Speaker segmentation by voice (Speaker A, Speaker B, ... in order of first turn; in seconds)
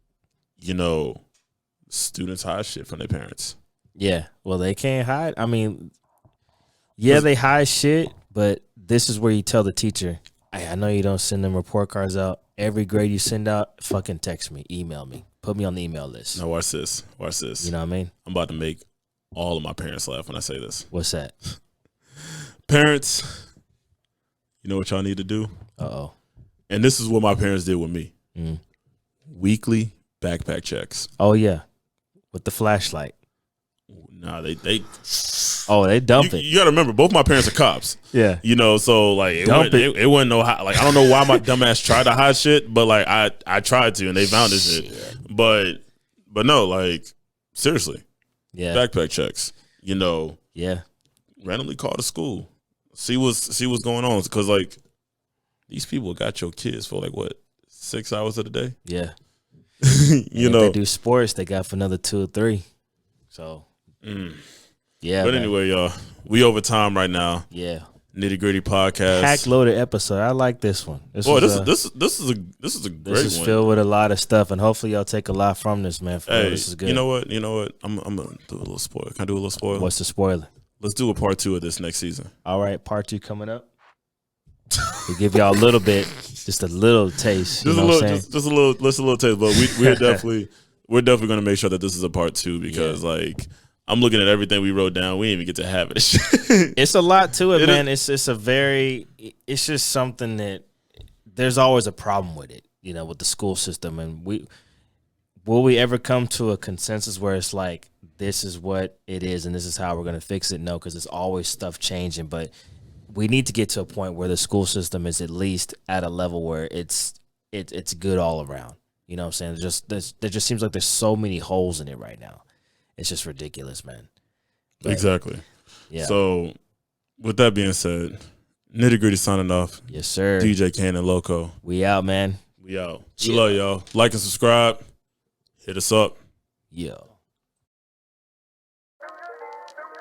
Speaker A: 0.6-1.2, 1.9-3.6, 16.3-17.7, 18.2-18.8, 19.3-20.9, 22.7-23.4, 24.6-25.5, 26.7-28.1, 29.3-31.1, 33.9-34.9, 36.1-48.0, 48.7-50.4, 51.4-54.8, 55.7-58.8, 59.8-60.8, 64.0-64.4, 65.2-67.5, 68.1-69.5, 71.2-73.6, 76.3-79.9, 80.8-82.3, 87.6-96.8, 97.5-97.8, 124.8-125.4, 126.0-126.5, 127.2-128.2, 128.7-129.8, 130.4-131.5, 132.6-134.8, 135.6-136.2
Speaker B: 4.0-5.9, 7.0-16.4, 17.6-18.1, 20.9-21.3, 25.8-26.1, 28.3-28.6, 31.2-31.6, 32.3-33.1, 35.7-36.4, 38.1-38.4, 39.5-39.9, 41.0-41.4, 44.8-45.1, 48.5-48.8, 50.5-50.8, 58.8-59.1, 60.3-62.6, 63.3-63.7, 65.0-65.5, 67.5-67.8, 69.1-71.7, 73.0-77.0, 79.7-80.5, 82.4-83.7, 85.1-88.2, 89.6-90.2, 92.7-93.0, 96.8-100.7, 101.3-104.5, 105.5-112.5, 113.1-122.4, 123.0-124.1, 125.9-126.2, 129.9-130.6, 131.6-132.4, 136.7-137.1